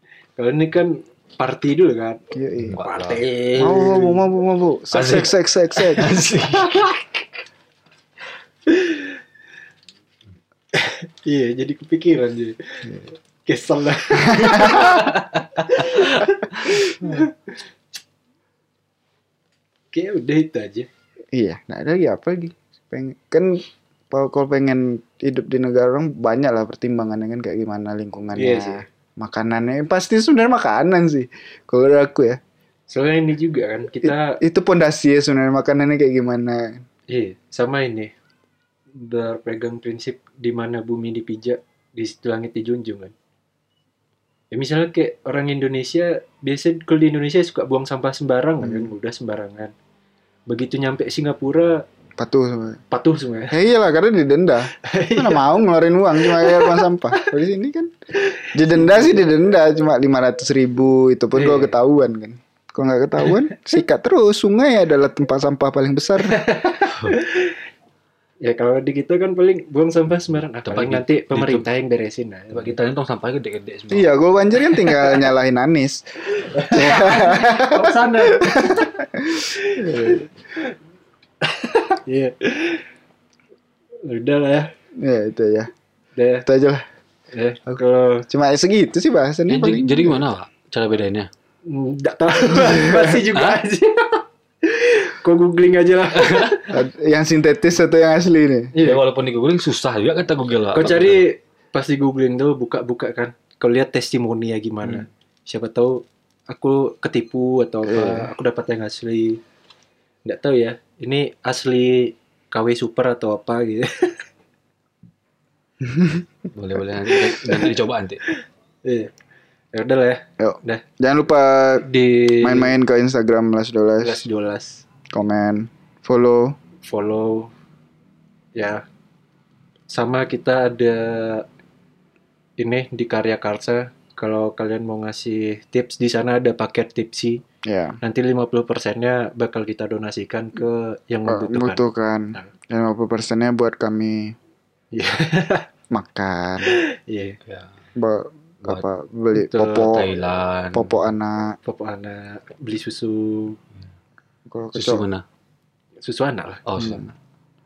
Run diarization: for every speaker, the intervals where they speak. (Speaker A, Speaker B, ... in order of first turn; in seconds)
Speaker A: 0.4-2.2, 2.8-4.2, 6.5-7.0, 8.7-9.2, 10.7-17.6, 19.9-20.9, 28.3-28.8, 32.9-34.4, 37.1-38.1, 39.0-43.1, 44.5-49.7, 50.5-51.8, 52.9-53.5, 54.8-55.5, 56.2-57.2, 58.2-59.3, 61.3-61.8, 63.2-63.5, 66.2-67.6, 68.4-72.8, 74.7-75.3, 76.3-79.0, 79.5-80.7, 81.4-82.8, 84.0-84.7, 86.1-86.5, 87.3-88.3, 91.7-96.7, 98.7-99.0, 100.7-109.4, 110.2-114.2, 117.3-117.7, 118.3-119.1, 119.7-120.8, 121.8-122.7, 124.0-124.8, 126.8-127.5, 128.5-128.8, 129.9-131.4, 132.6-137.4, 138.0-142.5, 144.9-145.7, 146.7-147.4, 149.3-150.0, 151.6-153.6, 156.0-156.9
Speaker B: 2.3-2.8, 3.6-6.2, 14.2-15.1, 21.3-32.4, 34.0-36.8, 48.6-48.9, 52.2-52.8, 53.5-57.9, 58.5-66.4, 73.9-80.2, 85.0-85.7, 86.4-86.8, 87.7-90.2, 92.5-93.2, 96.7-98.7, 107.8-108.3, 115.8-116.2, 120.4-121.8, 122.4-124.2, 125.1-126.6, 137.6-138.0, 141.3-144.4, 145.9-146.8, 147.9-150.1, 150.7-151.6, 154.5-155.1, 156.8-157.1
Speaker C: 2.7-3.2, 4.9-5.3, 5.9-6.9, 14.8-16.0, 70.7-71.7, 72.5-74.1, 89.5-91.3, 93.3-93.6, 96.1-96.6, 98.8-101.2, 116.5-118.2, 149.7-150.9, 154.7-155.2, 156.7-157.1